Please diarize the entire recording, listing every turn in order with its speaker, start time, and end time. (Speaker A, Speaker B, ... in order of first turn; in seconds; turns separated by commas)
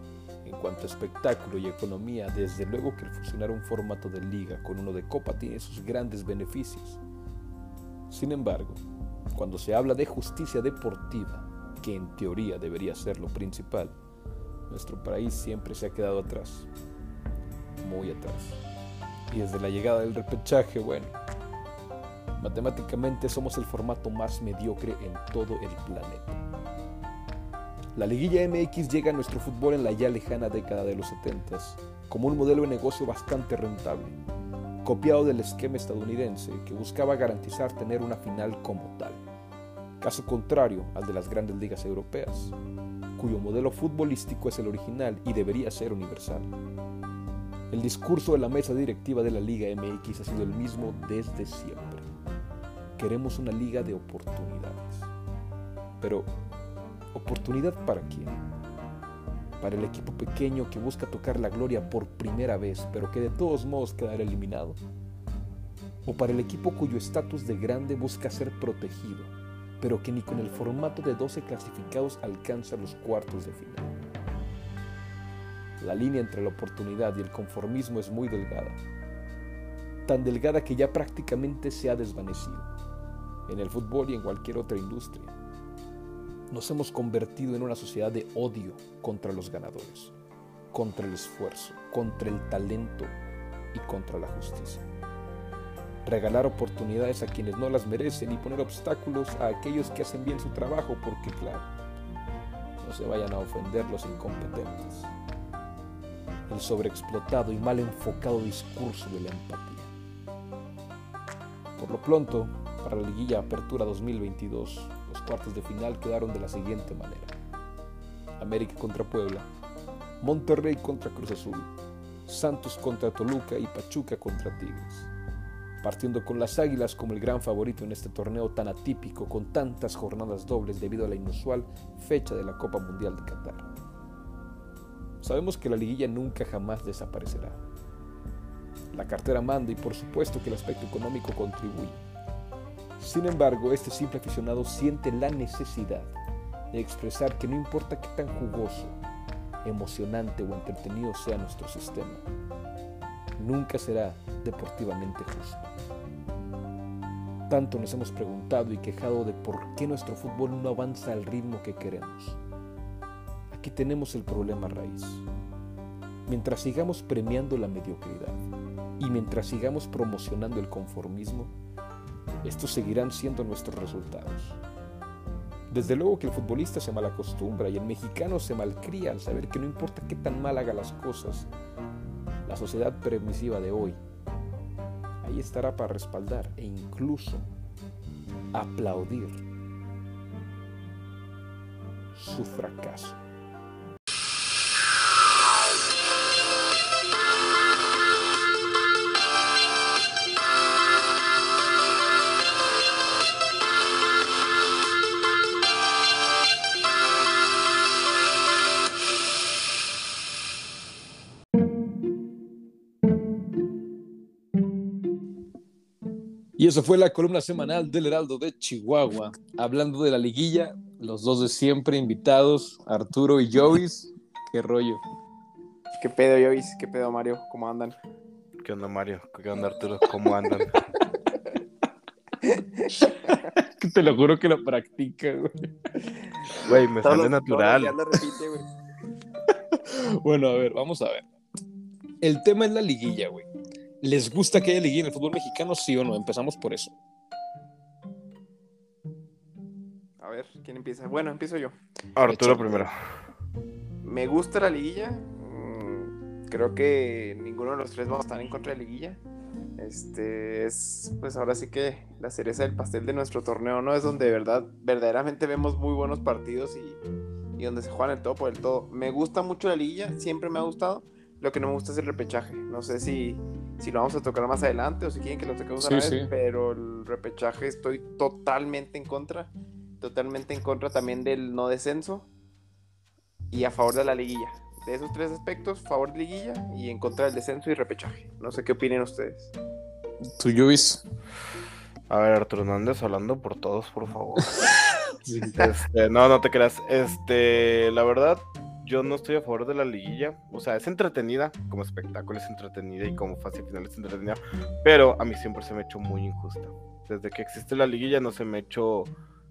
Speaker A: 0.4-7.0, Speaker A: 8.1-13.9, Speaker A: 14.7-16.7, Speaker A: 17.8-18.6, Speaker A: 19.3-21.1, Speaker A: 22.4-26.4, Speaker A: 27.9-34.2, Speaker A: 34.8-39.2, Speaker A: 40.0-42.5, Speaker A: 43.2-46.5, Speaker A: 47.7-52.0, Speaker A: 53.0-55.1, Speaker A: 56.0-56.3, Speaker A: 57.1-58.4, Speaker A: 59.6-64.8, Speaker A: 66.0-73.9, Speaker A: 75.8-78.8, Speaker A: 80.1-82.7, Speaker A: 83.5-85.3, Speaker A: 86.5-90.1, Speaker A: 90.7-93.1, Speaker A: 93.7-94.8, Speaker A: 96.0-101.7, Speaker A: 102.8-105.1, Speaker A: 106.5-109.9, Speaker A: 111.8-117.3, Speaker A: 118.4-119.5, Speaker A: 120.2-121.7, Speaker A: 122.2-125.1, Speaker A: 125.8-133.7, Speaker A: 135.2-137.6, Speaker A: 138.9-142.0, Speaker A: 143.0-146.1, Speaker A: 146.7-149.0, Speaker A: 149.6-152.2, Speaker A: 153.4-155.7, Speaker A: 157.5-162.4, Speaker A: 163.5-165.2, Speaker A: 166.3-168.4, Speaker A: 169.0-171.5, Speaker A: 172.4-174.6, Speaker A: 175.7-181.5, Speaker A: 182.4-184.0, Speaker A: 185.2-187.5, Speaker A: 188.5-189.4, Speaker A: 192.1-193.2, Speaker A: 216.6-225.0, Speaker B: 226.0-228.0, Speaker C: 228.6-230.7, Speaker B: 232.4-233.4, Speaker A: 232.9-235.5, Speaker C: 236.6-237.9, Speaker B: 237.0-238.7, Speaker A: 239.5-241.3, Speaker A: 242.2-243.5, Speaker A: 244.0-246.9, Speaker B: 250.2-251.7, Speaker C: 252.1-252.9, Speaker A: 252.3-252.9, Speaker B: 254.0-259.2, Speaker B: 259.8-267.0, Speaker B: 267.6-282.3, Speaker A: 275.8-276.3, Speaker B: 283.5-289.5, Speaker A: 290.4-291.0, Speaker C: 292.1-294.5, Speaker A: 295.2-295.6, Speaker C: 295.6-309.1